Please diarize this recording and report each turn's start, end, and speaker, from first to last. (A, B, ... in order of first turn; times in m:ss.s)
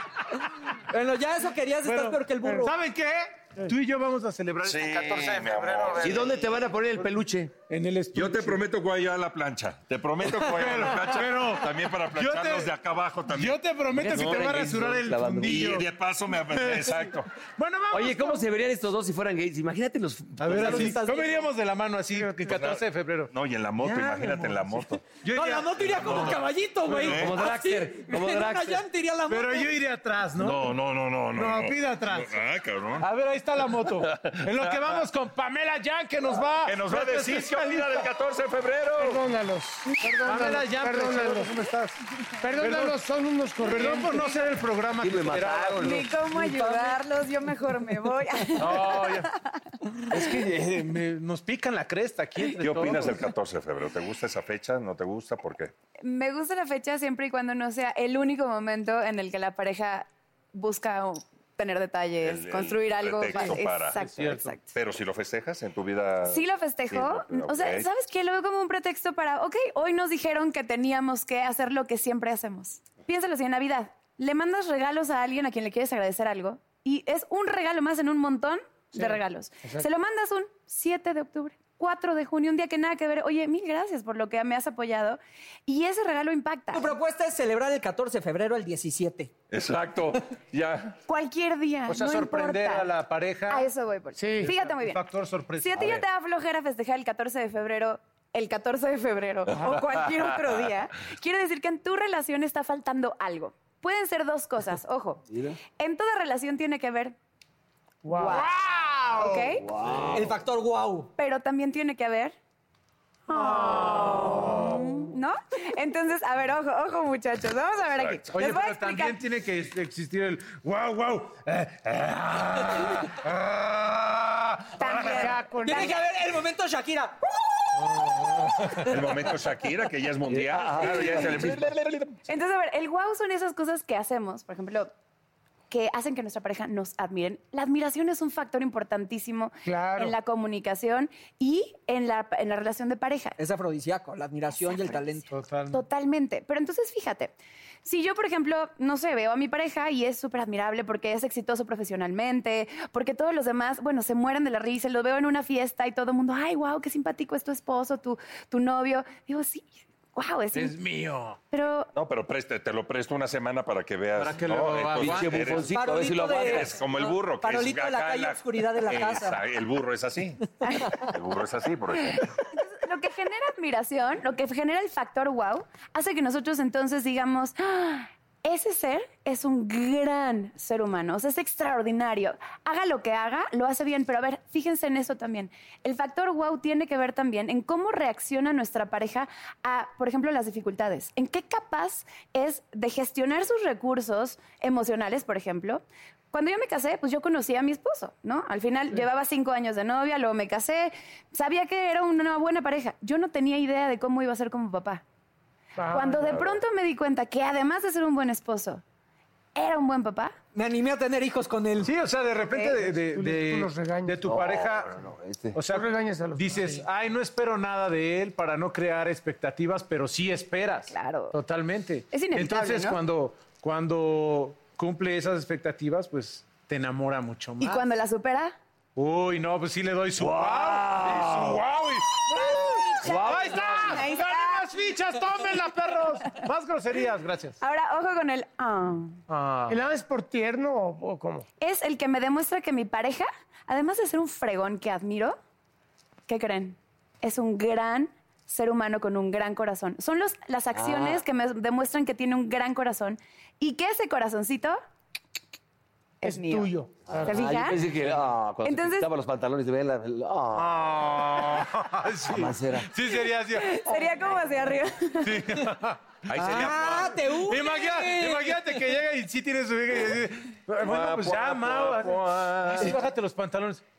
0:00.9-0:02.8 A
0:01.8-0:06.5 B
0:04.6-0:06.3 C
0:06.0-0:07.5 D
0:07.7-0:08.6 B
0:08.1-0:14.6 C
0:10.2-0:18.4 B
0:13.9-0:15.8 D
0:15.4-0:17.3 C
0:17.9-0:21.0 D
0:20.4-0:27.2 B
0:20.5-0:21.4 A
0:22.2-0:22.5 E
0:22.5-0:25.1 C
0:25.3-0:29.7 A
0:27.0-0:27.4 C
0:27.1-0:28.9 D
0:29.3-0:30.8 B
0:30.4-0:33.1 C
0:31.3-0:32.4 B
0:33.0-0:38.1 B
0:33.8-0:35.0 C
0:36.7-0:39.2 C
0:39.0-0:41.6 E
0:40.2-0:42.0 B
0:42.4-0:44.4 E
0:42.6-0:43.0 B
0:43.6-0:46.1 B
0:45.0-0:46.9 D
0:45.8-0:49.5 F
0:48.6-0:49.3 B
0:50.1-0:53.3 B
0:52.6-0:55.7 C
0:56.0-1:04.7 F
1:02.2-1:04.0 C
1:03.3-1:04.6 B
1:04.6-1:07.9 C
1:06.2-1:27.0 F
1:19.0-1:19.9 E
1:26.7-1:29.3 A
1:29.5-1:31.0 C
1:31.1-1:32.9 F
1:31.9-1:33.7 B
1:33.5-1:35.0 F
1:34.2-1:34.6 E
1:34.4-1:36.0 B
1:35.6-1:47.2 F
1:39.5-1:40.1 C
1:45.3-1:45.6 D
1:48.0-1:49.5 E
1:48.1-1:48.5 F
1:48.4-1:49.2 B
1:49.2-1:49.7 F
1:49.6-1:50.4 D
1:50.1-1:51.1 A
1:51.2-1:52.4 F
1:53.3-1:59.2 F
1:53.3-1:54.7 B
1:57.9-1:58.3 C
1:58.3-2:05.3 B
2:04.8-2:06.0 F
2:05.1-2:06.0 E
2:05.7-2:08.0 A
2:07.8-2:08.9 B
2:08.8-2:12.2 C
2:10.3-2:11.8 D
2:12.3-2:14.9 F
2:15.7-2:23.4 F
2:19.7-2:20.1 E
2:23.4-2:25.3 A
2:24.6-2:25.0 F
2:25.3-2:25.8 B
2:25.7-2:27.3 F
2:27.8-2:40.8 F
2:40.5-2:41.4 B
2:41.5-2:41.9 F
2:41.9-2:45.7 C
2:44.1-2:45.7 B
2:45.0-2:46.8 D
2:45.7-2:49.4 A
2:46.3-2:50.4 C
2:50.6-2:51.0 F
2:51.0-2:52.3 C
2:52.5-3:25.0 F
3:25.8-3:26.4 E
3:25.9-3:28.8 F
3:29.6-3:30.3 F
3:30.5-3:31.9 A
3:31.8-3:34.9 B
3:32.5-3:32.8 F
3:32.9-3:34.2 E
3:34.2-3:35.6 D
3:35.6-3:47.8 B
3:35.7-3:36.8 E
3:40.9-3:41.4 F
3:42.1-3:43.0 F
3:47.6-3:48.6 F
3:49.0-3:57.6 B
3:50.2-3:51.6 D
3:52.3-3:54.8 F
3:53.0-3:54.0 D
3:57.6-3:59.2 F
3:59.3-3:59.8 B
3:59.7-4:01.5 E
4:01.6-4:05.4 F
4:06.3-4:14.8 F
4:10.8-4:11.2 D
4:16.2-4:17.8 F
4:16.2-4:17.5 E
4:17.1-4:21.0 D
4:18.6-4:19.1 F
4:20.6-4:24.0 B
4:22.3-4:22.9 D
4:23.2-4:25.7 F
4:25.2-4:26.8 B
4:26.3-4:27.2 C
4:26.4-4:28.8 A
4:27.3-4:33.8 B
4:30.8-4:33.0 C